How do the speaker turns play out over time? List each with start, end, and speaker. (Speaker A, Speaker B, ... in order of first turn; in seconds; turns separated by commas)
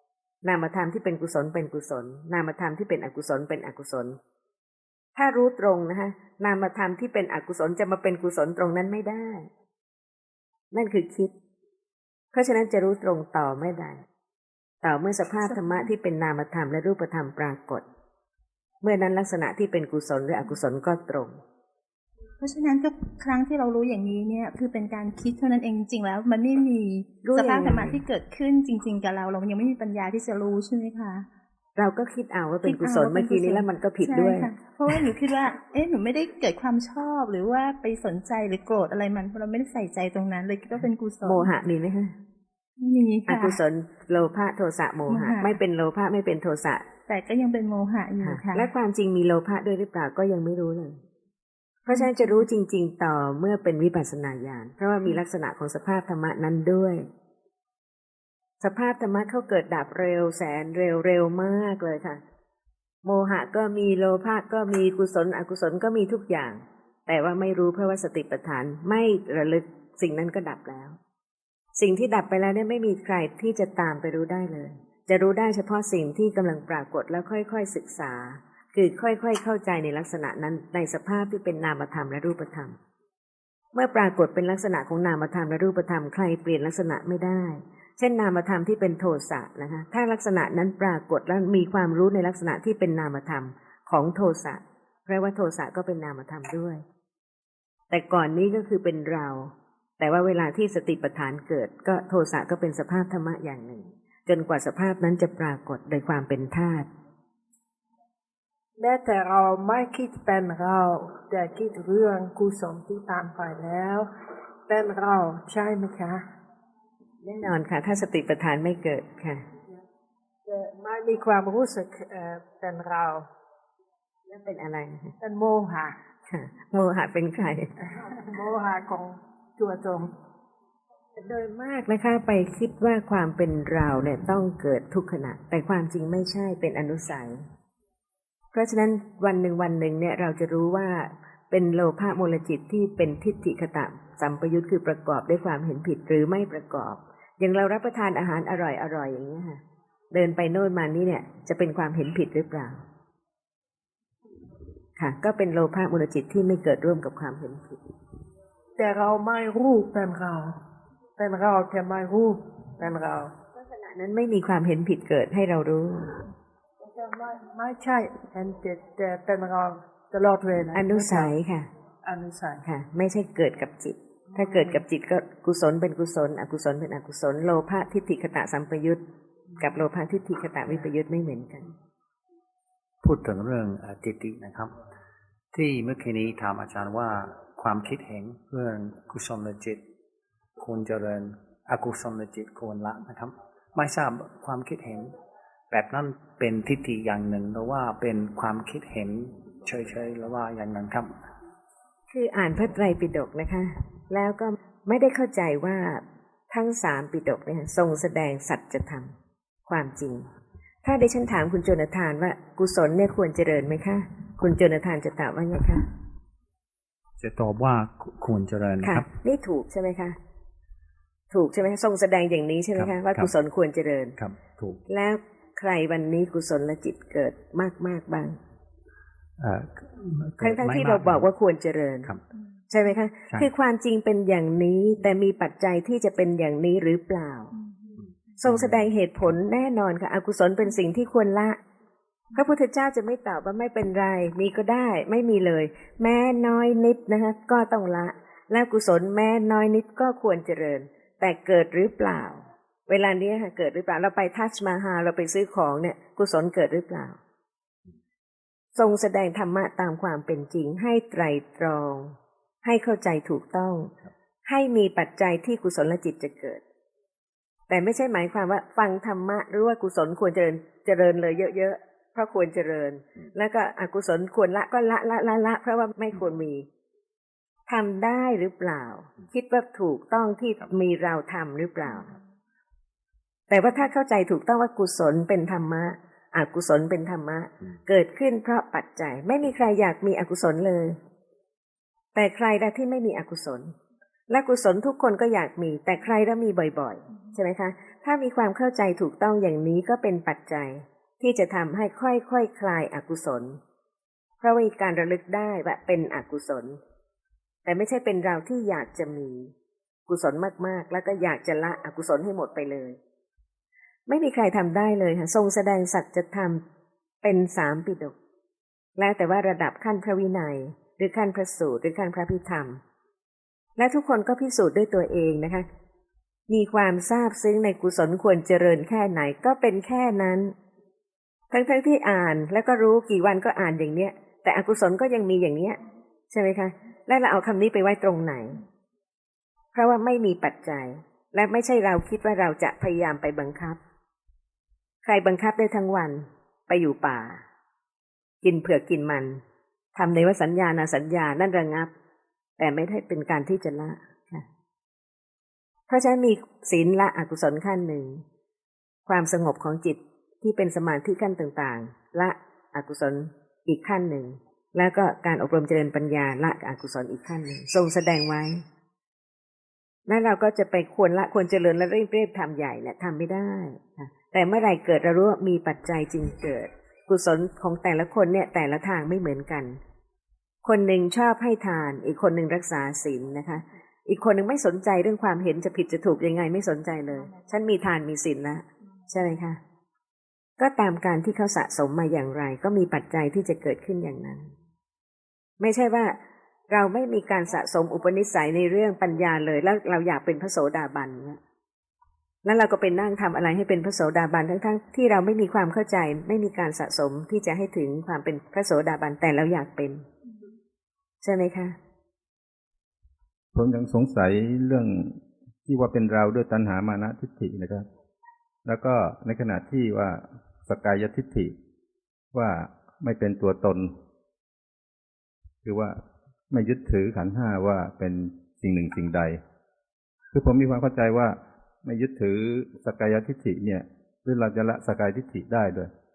Speaker A: 0.4-4.2, Speaker A: 5.2-9.5, Speaker A: 10.7-11.3, Speaker A: 12.3-14.0, Speaker A: 14.8-17.8, Speaker A: 18.8-21.4, Speaker B: 22.4-31.2, Speaker A: 27.2-28.0, Speaker A: 31.8-34.5, Speaker B: 32.6-41.5, Speaker A: 41.2-42.1, Speaker B: 42.8-43.6, Speaker A: 43.3-46.8, Speaker B: 45.1-45.5, Speaker B: 47.1-48.7, Speaker A: 48.2-51.0, Speaker A: 51.9-57.1, Speaker B: 51.9-52.4, Speaker A: 58.6-62.2, Speaker A: 63.0-71.0, Speaker A: 71.8-82.8, Speaker A: 83.7-96.8, Speaker A: 97.9-106.9, Speaker C: 108.8-114.1, Speaker C: 114.7-116.2, Speaker A: 117.2-119.4, Speaker C: 120.5-123.2, Speaker A: 124.3-125.1, Speaker C: 125.2-125.9, Speaker A: 126.3-127.7, Speaker C: 128.0-130.1, Speaker A: 131.2-137.4, Speaker A: 138.5-149.6, Speaker A: 150.1-152.8, Speaker A: 155.0-157.8, Speaker C: 158.8-160.5, Speaker C: 161.2-163.3, Speaker A: 163.5-166.1, Speaker C: 166.8-171.3, Speaker A: 170.7-171.7, Speaker C: 172.0-172.6, Speaker A: 172.6-179.0, Speaker C: 174.3-174.8, Speaker A: 179.6-181.7, Speaker D: 183.0-184.7, Speaker D: 185.5-189.8, Speaker D: 190.6-195.1, Speaker D: 195.7-201.2, Speaker A: 202.1-209.1, Speaker A: 209.7-210.3, Speaker A: 210.8-215.8, Speaker D: 217.2-219.1, Speaker A: 218.8-220.2, Speaker A: 221.3-224.2, Speaker D: 222.7-223.3, Speaker D: 224.2-224.8, Speaker A: 224.9-228.4, Speaker D: 229.4-231.3, Speaker A: 230.4-232.1, Speaker A: 232.7-237.5, Speaker B: 237.7-237.9, Speaker D: 238.0-238.9, Speaker A: 238.4-241.6, Speaker A: 242.3-257.2, Speaker A: 258.7-263.9, Speaker A: 264.4-266.6, Speaker A: 267.7-276.7, Speaker A: 277.7-282.1, Speaker A: 283.5-291.0, Speaker A: 292.1-293.7, Speaker A: 294.3-303.6, Speaker A: 304.4-306.8, Speaker A: 307.6-309.5, Speaker A: 310.1-313.0, Speaker A: 314.1-316.6, Speaker A: 317.2-318.1, Speaker A: 319.0-322.8, Speaker A: 323.8-325.6, Speaker A: 326.5-330.5, Speaker A: 331.5-335.8, Speaker A: 336.3-338.6, Speaker A: 339.7-343.8, Speaker A: 345.0-347.4, Speaker A: 348.4-349.4, Speaker A: 349.9-351.9, Speaker A: 352.6-354.4, Speaker A: 355.9-358.2, Speaker A: 359.1-368.6, Speaker A: 370.1-379.8, Speaker A: 380.6-389.6, Speaker A: 390.6-394.5, Speaker A: 395.6-396.2, Speaker A: 396.7-401.4, Speaker A: 402.4-410.0, Speaker A: 411.2-411.8, Speaker E: 413.5-417.8, Speaker E: 418.6-421.5, Speaker E: 422.3-423.9, Speaker E: 425.6-426.0, Speaker E: 426.5-429.4, Speaker E: 430.3-435.9